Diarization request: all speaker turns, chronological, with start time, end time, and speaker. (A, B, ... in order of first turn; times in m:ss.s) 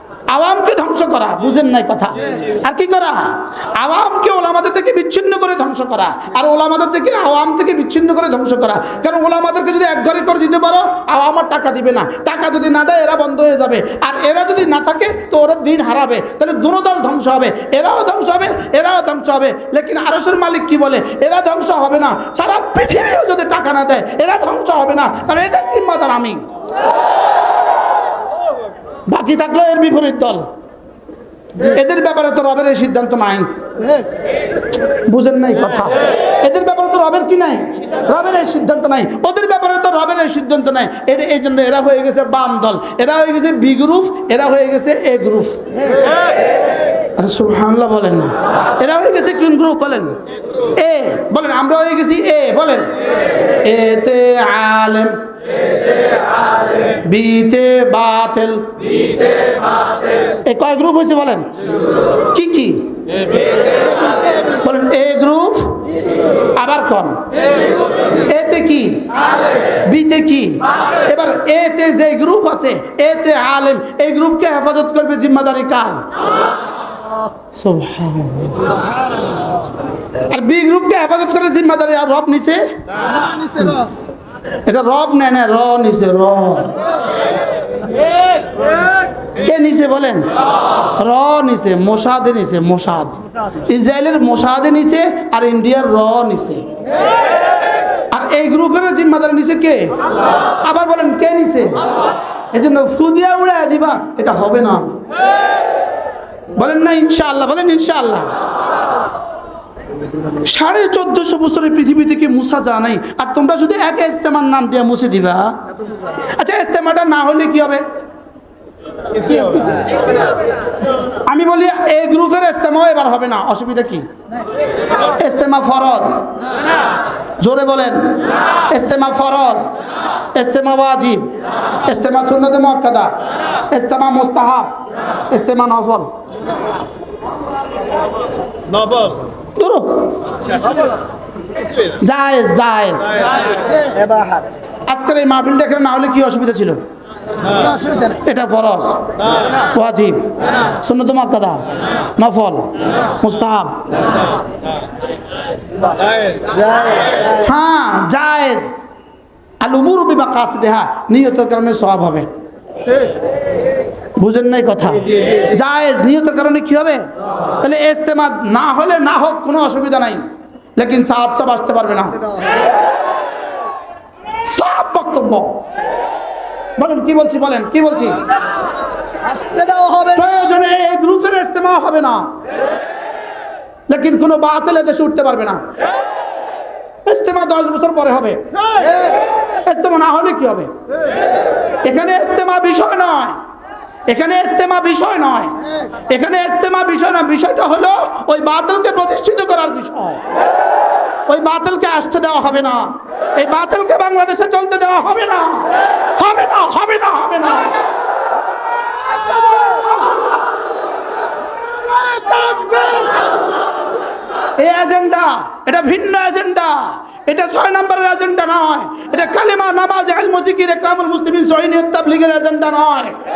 0:00.3-0:26.4 A
0:29.1-0:30.4 A
0:31.6-0:33.5 A
0:35.0-0:45.6 A
0:47.2-0:50.2 A
0:50.8-0:52.9 A
0:53.6-0:55.2 A
0:56.9-0:59.1 A
1:00.4-1:01.5 A
1:02.2-1:03.0 A
1:04.5-1:05.9 A
1:06.5-1:07.3 A
1:08.1-1:09.2 A
1:09.8-1:16.0 A
1:17.5-1:18.6 A
1:20.3-1:22.7 A
1:23.2-1:23.6 B
1:23.6-1:23.9 A
1:24.7-1:26.8 A
1:29.4-1:30.3 A
1:31.0-1:36.7 A
1:38.1-1:40.0 A
1:40.6-1:41.9 A
1:42.5-1:45.0 A
1:46.5-1:48.3 A
1:50.4-1:55.6 A
1:56.3-1:57.8 A
1:59.3-1:59.9 B
2:01.2-2:04.1 A
2:05.2-2:06.2 A
2:07.4-2:09.8 A
2:10.4-2:11.3 A
2:11.9-2:13.2 A
2:13.7-2:16.1 A
2:19.6-2:20.3 A
2:22.0-2:23.3 A
2:23.8-2:24.4 B
2:24.9-2:26.8 A
2:28.0-2:29.1 A
2:29.7-2:33.8 A
2:36.6-2:37.2 B
2:37.3-2:38.7 A
2:39.6-2:42.3 A
2:44.2-2:50.2 A
2:50.8-2:52.3 A
2:54.4-2:55.6 A
2:56.8-2:58.2 A
2:59.2-3:00.1 B
3:00.0-3:02.3 A
3:03.9-3:05.6 A
3:07.1-3:08.5 A
3:09.7-3:10.7 A
3:11.8-3:13.4 A
3:14.1-3:20.2 A
3:21.3-3:27.8 A
3:32.0-3:33.2 A
3:34.6-3:43.2 A